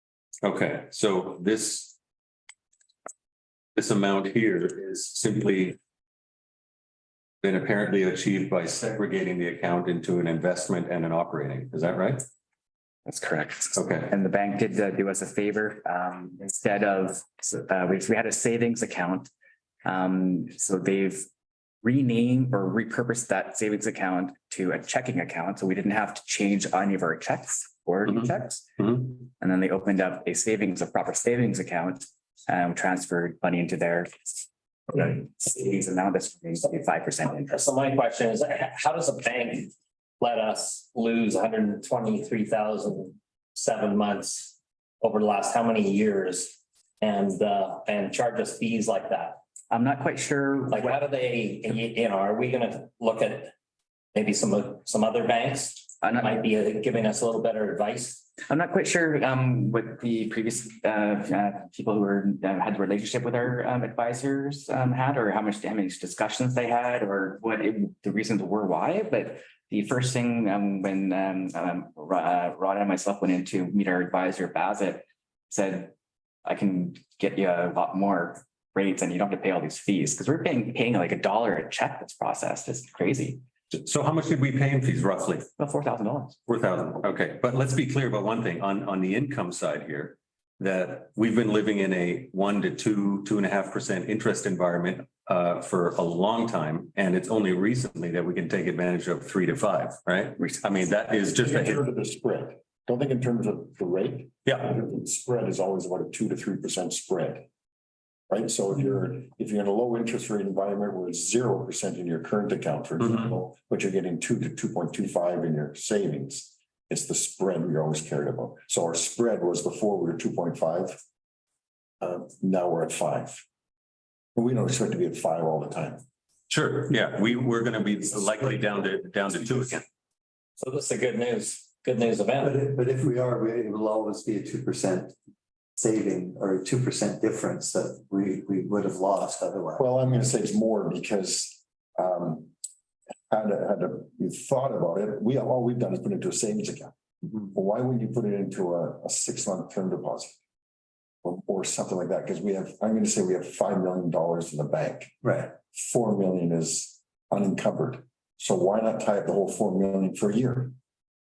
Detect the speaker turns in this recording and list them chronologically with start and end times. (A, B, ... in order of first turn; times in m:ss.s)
0:00.4-0:02.0 A
0:03.8-0:05.8 A
0:07.4-0:12.2 A
0:13.0-0:19.3 B
0:13.8-0:14.1 A
0:19.8-0:21.2 B
0:21.8-0:37.6 B
0:37.5-0:49.4 C
0:49.7-0:51.0 B
0:50.7-0:53.5 C
0:54.1-0:58.2 C
0:56.0-0:56.4 B
0:58.5-1:15.9 B
1:16.4-1:23.4 B
1:23.7-1:25.4 A
1:25.6-1:26.4 B
1:26.5-1:41.8 A
1:41.4-1:47.4 D
1:44.4-1:44.7 A
1:48.3-2:01.0 D
2:02.0-2:03.4 D
2:04.3-2:06.0 D
2:06.5-2:09.8 A
2:10.6-2:12.6 C
2:12.4-2:15.1 E
2:15.8-2:19.9 E
2:19.8-2:22.5 D
2:23.3-2:30.4 D
2:31.2-2:40.7 D
2:35.2-2:35.5 E